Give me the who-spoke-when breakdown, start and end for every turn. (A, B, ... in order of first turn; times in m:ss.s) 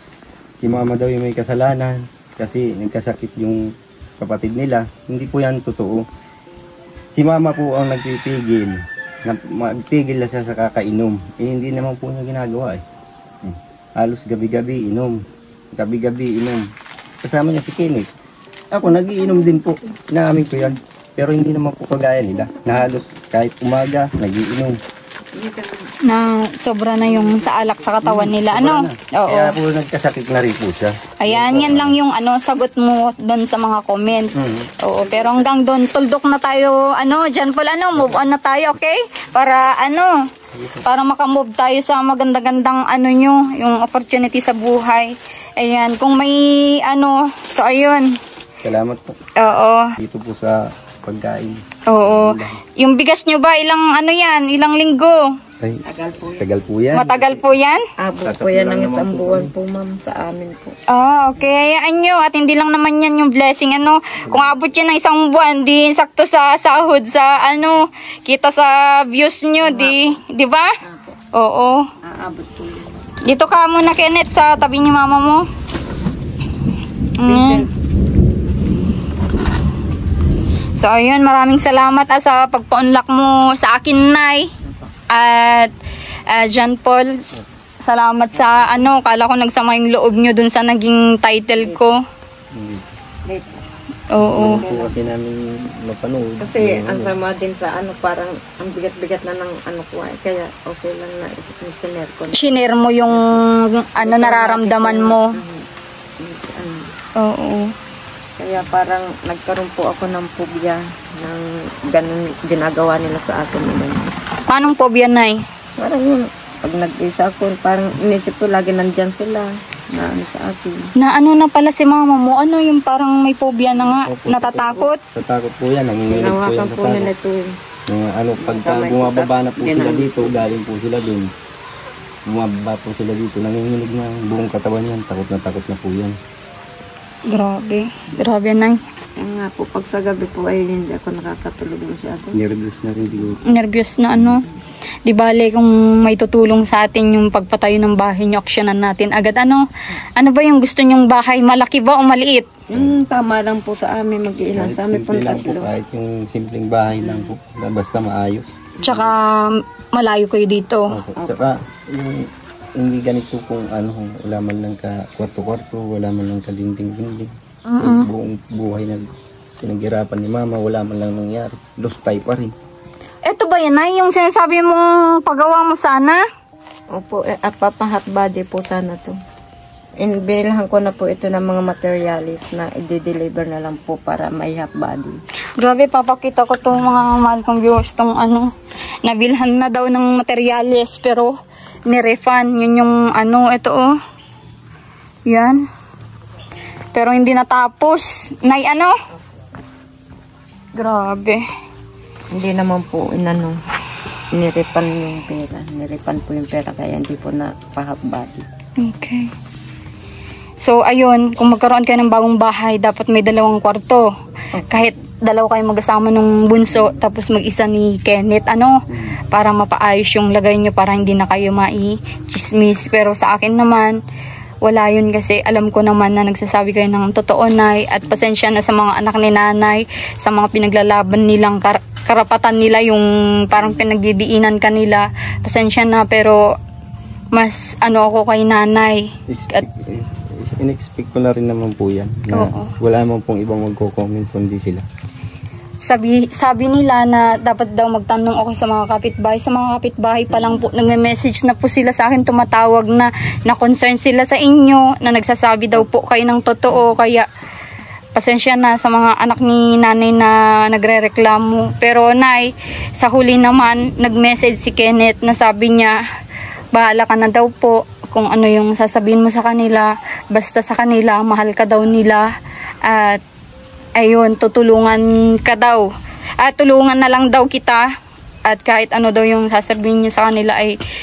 0:00.6-0:06.0 A
0:07.2-0:12.8 A
0:13.4-0:15.2 A
0:15.8-0:16.6 A
0:17.2-0:18.1 A
0:18.7-0:24.8 A
0:25.3-0:26.0 B
0:26.0-0:29.6 C
0:27.0-0:27.8 B
0:28.0-0:32.0 A
0:31.2-0:40.2 C
0:34.3-0:34.7 A
0:35.0-0:35.6 B
0:40.5-0:40.8 A
0:40.8-0:48.1 C
0:48.6-0:49.2 A
0:49.4-0:50.0 C
0:50.0-0:52.6 A
0:51.9-0:55.4 C
0:55.8-0:56.5 B
0:56.4-0:57.4 A
0:56.9-0:57.8 C
0:58.0-1:00.8 B
0:58.2-0:59.5 A
1:00.9-1:10.8 C
1:09.6-1:10.2 B
1:10.8-1:11.2 B
1:11.3-1:11.9 C
1:12.0-1:13.1 B
1:13.2-1:15.5 C
1:17.2-1:17.7 C
1:17.2-1:17.7 B
1:20.8-1:24.5 C
1:24.6-1:24.9 B
1:25.1-1:25.7 C
1:26.3-1:32.0 C
1:32.5-1:32.9 A
1:33.3-1:33.6 B
1:34.1-1:34.6 C
1:34.3-1:37.2 A
1:34.3-1:35.0 B
1:36.4-1:42.4 B
1:42.3-1:45.3 C
1:43.1-1:43.4 B
1:44.0-1:45.7 B
1:46.2-1:46.9 B
1:47.2-1:47.8 C
1:48.4-1:54.1 B
1:54.5-1:55.4 C
1:55.8-2:00.9 B
2:01.0-2:05.0 C
2:04.0-2:07.1 A
2:06.1-2:07.5 B
2:07.9-2:11.3 A
2:08.4-2:10.3 B
2:12.3-2:16.2 A
2:17.3-2:18.8 C
2:19.2-2:22.4 B
2:22.3-2:23.4 A
2:23.5-2:24.4 C
2:25.1-2:32.5 C
2:32.7-2:35.7 B
2:34.5-2:39.0 A
2:37.0-2:37.3 B
2:38.8-2:41.0 C
2:40.9-2:52.5 A
2:41.2-2:41.4 B
2:47.7-2:48.1 C
2:53.2-2:56.3 C
2:56.9-2:59.2 B
3:00.0-3:05.2 B
3:05.6-3:08.5 C
3:09.0-3:14.0 C
3:15.3-3:15.7 C
3:16.9-3:19.0 C
3:20.8-3:21.4 C
3:22.3-3:23.6 B
3:24.3-3:28.5 B
3:28.8-3:29.3 C
3:30.6-3:34.1 C
3:34.5-3:34.9 B
3:34.7-3:44.0 C
3:44.6-3:56.5 C
3:57.3-3:59.6 C
3:59.3-4:04.8 A
4:02.3-4:02.7 C
4:05.8-4:17.3 C
4:18.2-4:26.0 C
4:26.7-4:32.3 C
4:32.8-4:33.2 C
4:34.0-4:35.9 C
4:36.4-4:37.9 C
4:38.5-4:40.8 C